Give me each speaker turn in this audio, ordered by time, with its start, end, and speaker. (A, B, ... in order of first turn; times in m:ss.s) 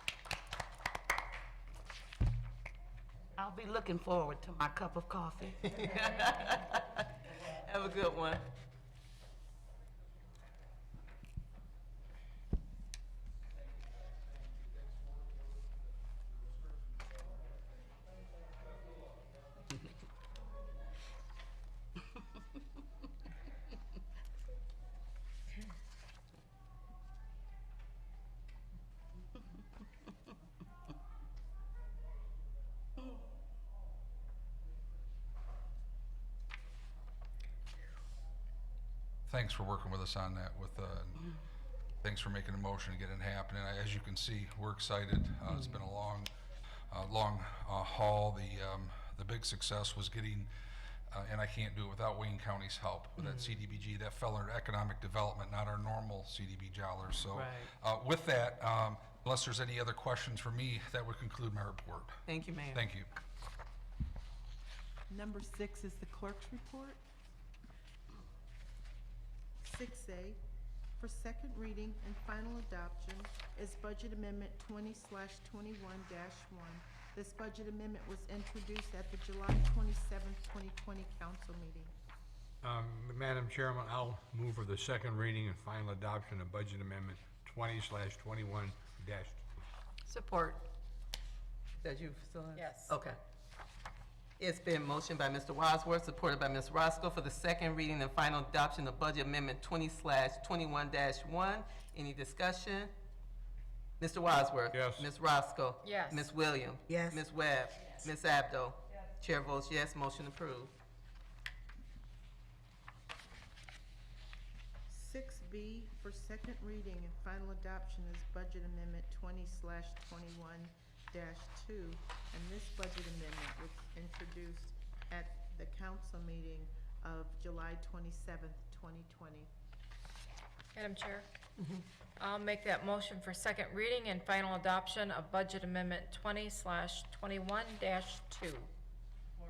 0:03.4-0:05.8 A
0:05.6-0:08.4 B
0:39.3-0:41.3 C
0:42.0-0:46.3 C
0:46.9-0:50.5 C
0:51.1-1:03.1 C
0:53.2-0:53.5 B
0:57.3-0:57.7 B
1:02.3-1:02.8 B
1:05.1-1:07.0 D
1:09.6-1:10.4 D
1:11.0-1:21.9 D
1:22.6-1:29.4 E
1:30.1-1:30.6 F
1:31.8-1:33.2 B
1:32.6-1:33.0 F
1:34.4-1:42.9 B
1:44.0-1:50.7 B
1:44.7-1:45.1 E
1:45.8-1:46.3 F
1:46.9-1:47.2 A
1:54.9-2:09.5 D
2:10.8-2:11.3 F
2:12.2-2:18.7 F